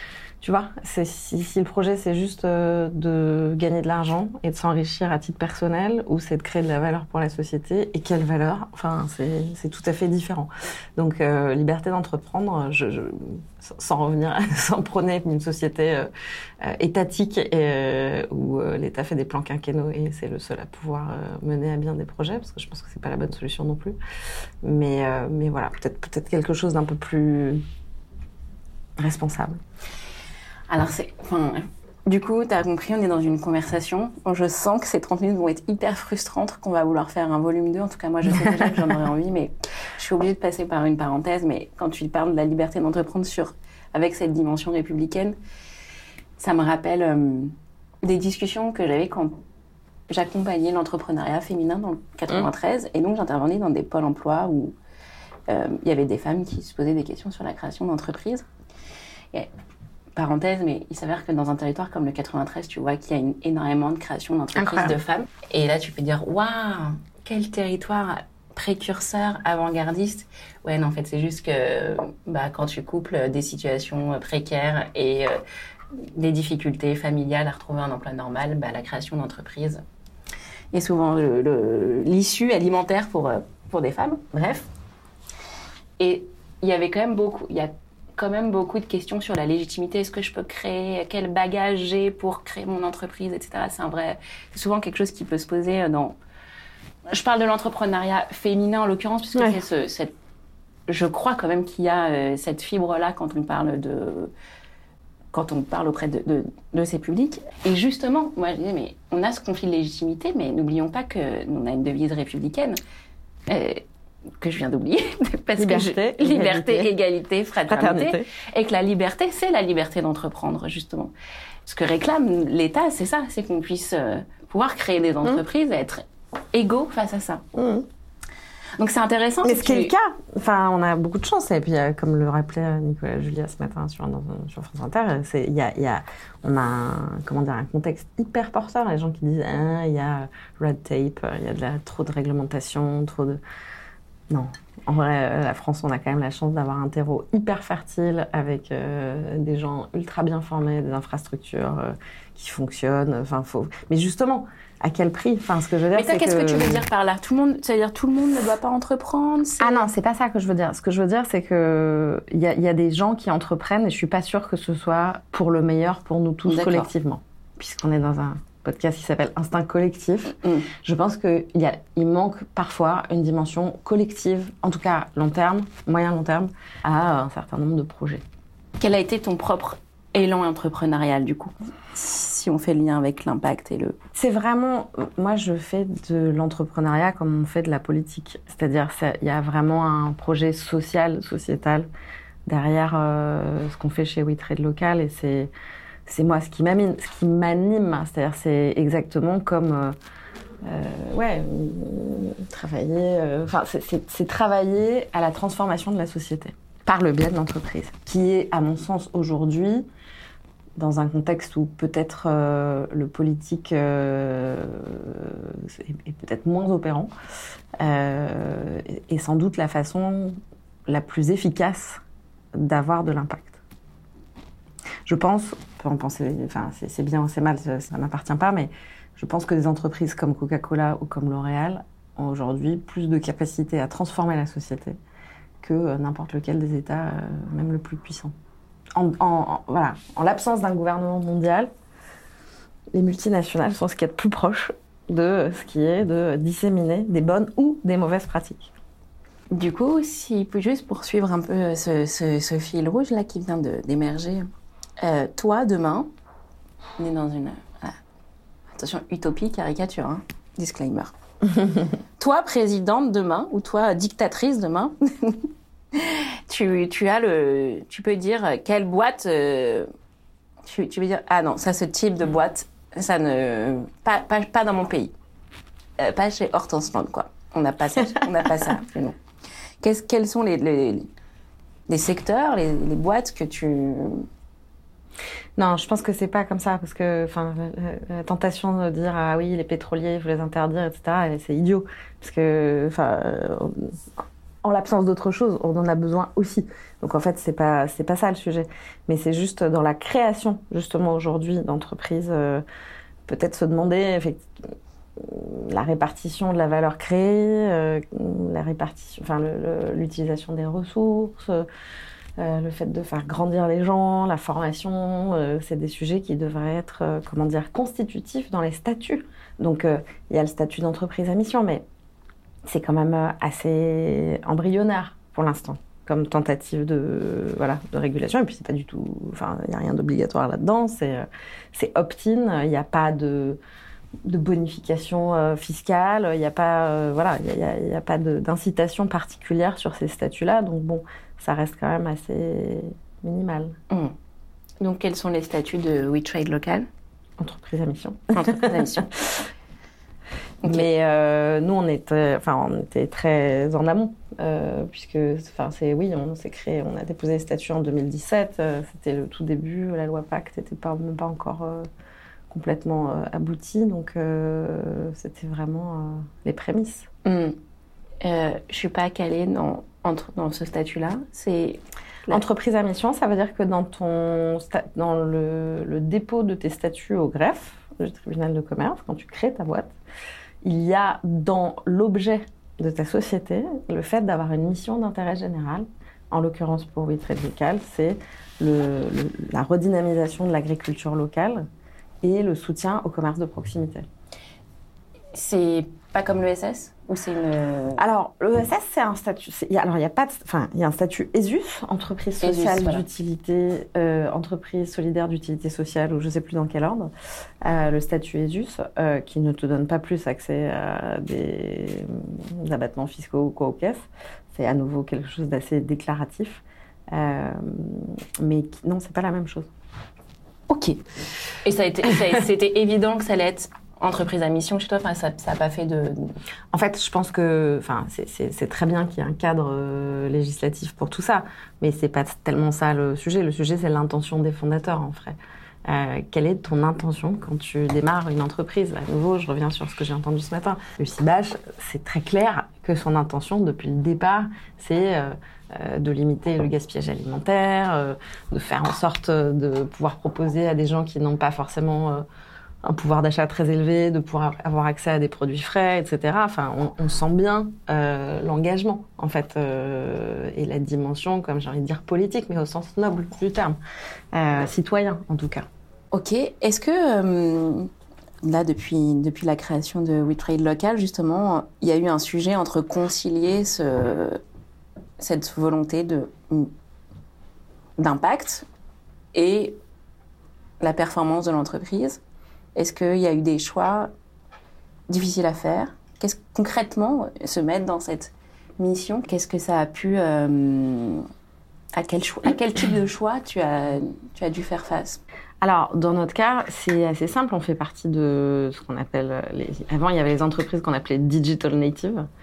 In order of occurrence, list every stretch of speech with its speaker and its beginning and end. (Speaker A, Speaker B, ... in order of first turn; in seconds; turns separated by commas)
Speaker A: 0.4-16.1, Speaker A: 16.6-24.0, Speaker A: 24.6-27.6, Speaker A: 29.0-29.6, Speaker B: 30.7-45.4, Speaker A: 38.4-38.7, Speaker B: 46.4-49.4, Speaker B: 50.1-54.8, Speaker B: 55.5-58.5, Speaker B: 60.1-75.4, Speaker A: 64.5-64.9, Speaker B: 75.9-79.8, Speaker B: 80.7-84.7, Speaker B: 86.0-96.2, Speaker B: 97.1-100.1, Speaker B: 100.9-104.3, Speaker B: 105.3-112.8, Speaker B: 113.5-113.8, Speaker B: 114.4-121.1, Speaker A: 115.6-116.9, Speaker A: 117.7-118.3, Speaker B: 121.7-127.5, Speaker A: 127.5-127.8, Speaker B: 128.8-129.9, Speaker A: 129.4-143.4, Speaker A: 144.3-156.8, Speaker B: 155.9-159.8, Speaker A: 159.6-178.2, Speaker B: 166.5-166.9, Speaker B: 170.4-170.7, Speaker B: 178.8-183.9, Speaker A: 184.1-191.9, Speaker A: 192.4-195.5, Speaker A: 196.1-199.9, Speaker A: 200.6-209.8, Speaker A: 210.8-217.1, Speaker A: 217.8-222.0, Speaker A: 222.6-223.6, Speaker A: 225.1-235.0, Speaker A: 235.6-238.3, Speaker A: 238.9-241.7, Speaker A: 242.9-248.7, Speaker B: 249.5-254.5, Speaker B: 255.0-256.1, Speaker B: 257.0-258.0, Speaker B: 258.7-261.1, Speaker B: 262.2-269.9, Speaker B: 270.6-275.1, Speaker B: 276.0-279.2, Speaker B: 279.8-281.1, Speaker B: 281.9-284.2, Speaker A: 285.6-293.9, Speaker A: 294.6-302.6, Speaker A: 303.3-304.5, Speaker A: 305.1-311.6, Speaker A: 312.4-321.8, Speaker A: 322.6-333.6, Speaker A: 334.2-343.8, Speaker B: 344.8-346.9, Speaker A: 347.4-349.5, Speaker B: 348.3-349.1, Speaker A: 350.6-361.9, Speaker A: 362.5-367.1, Speaker B: 367.2-367.6, Speaker B: 368.2-372.4, Speaker A: 372.3-379.9, Speaker A: 380.6-391.7, Speaker A: 392.2-394.1, Speaker B: 395.3-398.0, Speaker A: 398.0-407.1, Speaker B: 402.4-403.0, Speaker A: 407.6-419.7, Speaker B: 420.7-421.0, Speaker B: 421.6-426.4, Speaker A: 426.7-452.2, Speaker A: 452.8-463.8, Speaker A: 464.3-465.6, Speaker B: 466.1-467.9, Speaker B: 468.4-474.4, Speaker B: 475.2-476.7, Speaker B: 478.0-478.6, Speaker B: 479.3-479.8, Speaker B: 480.8-482.2, Speaker B: 482.7-484.1, Speaker B: 485.1-491.3, Speaker B: 491.9-495.2, Speaker A: 495.6-502.3